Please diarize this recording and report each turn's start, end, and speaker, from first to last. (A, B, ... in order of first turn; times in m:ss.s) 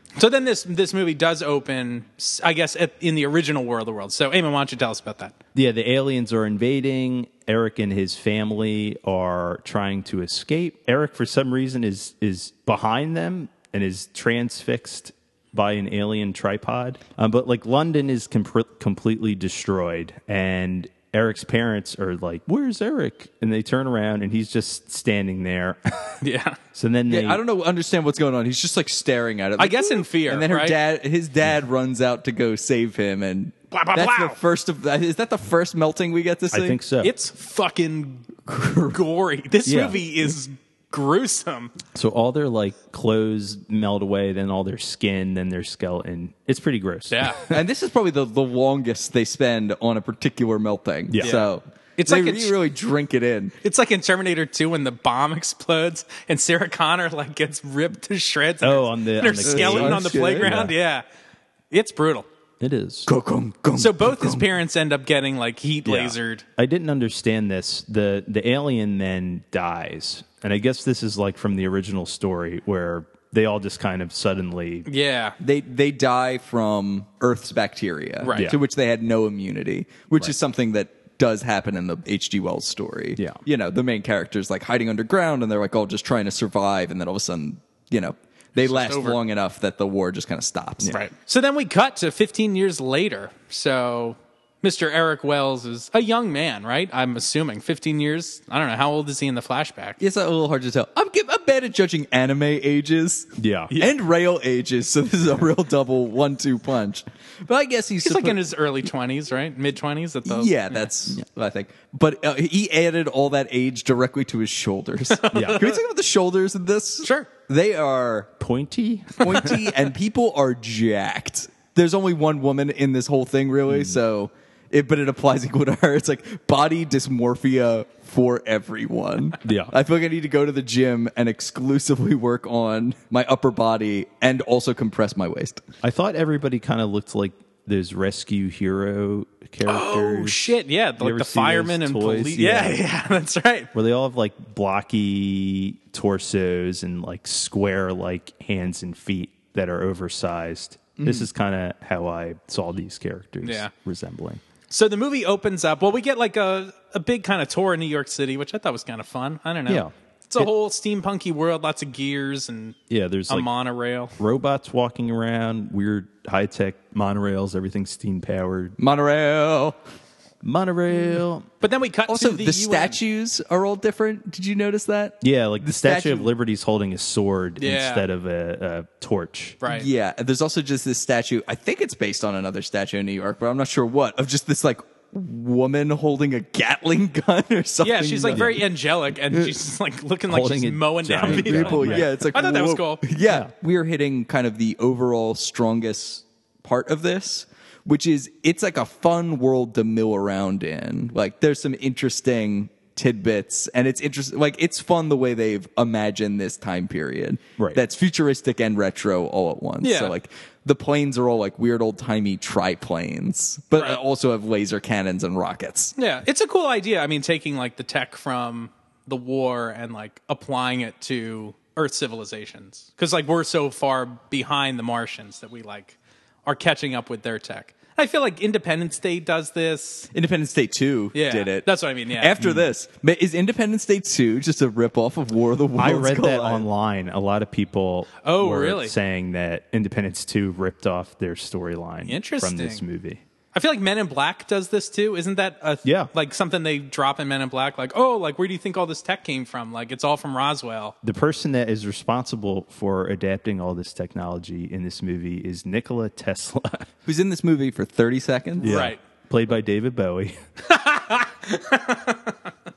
0:00.2-0:05.3 A
0:05.5-0:26.2 B
0:26.2-0:26.6 A
0:26.7-0:27.4 B
0:27.1-0:36.8 C
0:29.6-0:30.8 A
0:33.7-0:34.4 A
0:36.5-0:37.1 B
0:37.0-0:38.3 A
0:38.5-0:39.0 C
0:38.9-0:41.7 A
0:39.6-0:40.0 B
0:41.9-0:47.6 B
0:47.1-0:47.4 A
0:47.5-0:53.6 C
0:51.1-0:51.4 B
0:51.2-0:52.5 A
0:53.6-1:01.0 A
0:58.6-1:00.7 B
0:59.4-1:00.5 C
1:01.7-1:02.3 A
1:02.6-1:03.1 B
1:03.1-1:04.5 C
1:03.8-1:06.4 A
1:05.8-1:14.9 B
1:14.8-1:15.4 A
1:15.4-1:30.9 C
1:18.2-1:18.5 A
1:28.6-1:29.2 A
1:30.9-1:40.0 A
1:40.0-1:48.4 C
1:43.4-1:43.7 B
1:48.0-1:50.9 A
1:50.2-1:58.3 C
1:55.1-1:55.8 A
1:55.3-1:55.6 B
1:57.0-1:57.3 A
1:58.4-1:59.6 B
1:59.2-2:15.6 C
2:03.7-2:04.0 B
2:09.4-2:09.7 B
2:15.8-2:22.8 B
2:19.6-2:23.7 A
2:23.7-2:34.4 B
2:31.0-2:31.3 C
2:33.4-2:33.7 A
2:34.7-2:42.8 A
2:39.7-2:40.5 B
2:42.9-2:43.5 B
2:43.3-2:44.1 A
2:44.2-2:48.8 B
2:48.8-2:49.8 C
2:50.4-2:51.4 B
2:51.6-2:53.0 A
2:52.1-2:56.3 C
2:55.2-2:59.6 B
2:57.6-2:58.0 A
2:59.6-2:59.9 A
2:59.7-3:08.6 C
3:07.8-3:13.0 A
3:08.3-3:08.6 B
3:10.3-3:12.1 B
3:11.2-3:35.9 C
3:13.2-3:13.5 B
3:29.8-3:30.1 A
3:33.7-3:34.0 A
3:36.0-3:50.1 A
3:50.1-3:56.6 C
3:51.1-3:52.3 A
3:55.8-4:03.2 B
3:58.2-3:58.9 A
4:02.1-4:02.8 A
4:03.5-4:10.9 A
4:05.8-4:06.1 B
4:11.0-4:16.9 B
4:17.0-4:18.8 C
4:18.6-4:20.4 B
4:18.6-4:19.0 A
4:20.7-4:22.4 A